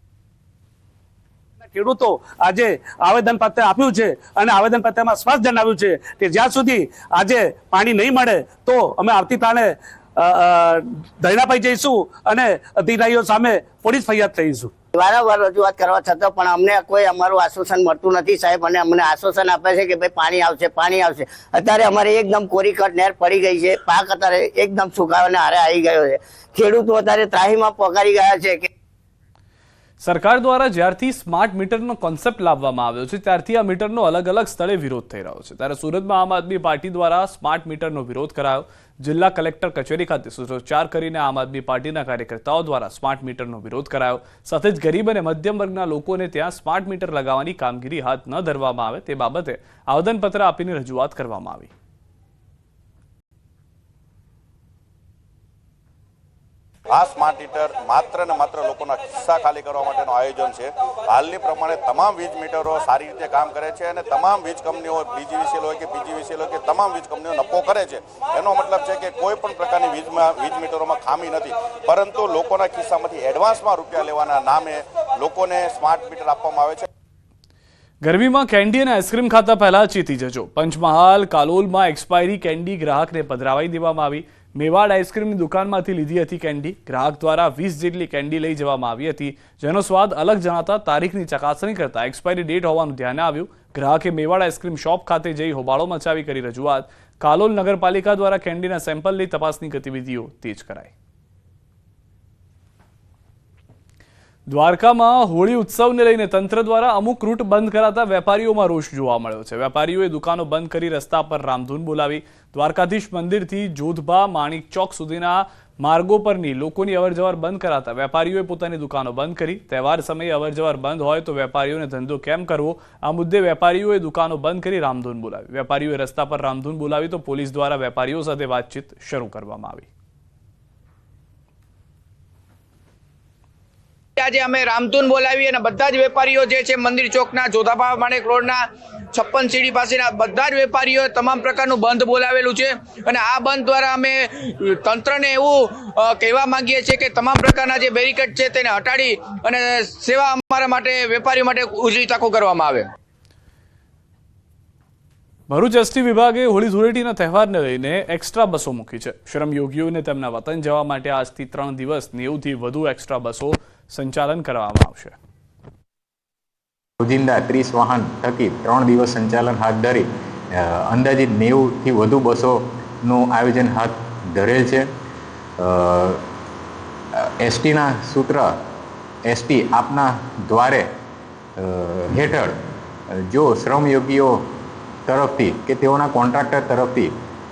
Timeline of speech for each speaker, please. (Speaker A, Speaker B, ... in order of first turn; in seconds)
Speaker A: 1.6-14.7
Speaker B: 14.9-28.7
Speaker C: 30.0-51.7, 78.0-100.9, 104.5-129.9, 155.5-165.2
Speaker D: 56.9-76.8
Speaker E: 134.2-152.9
Speaker F: 167.0-174.9, 175.6-176.2, 177.1-178.5, 179.3-180.9, 181.6-182.6, 183.2-184.5, 185.1-187.1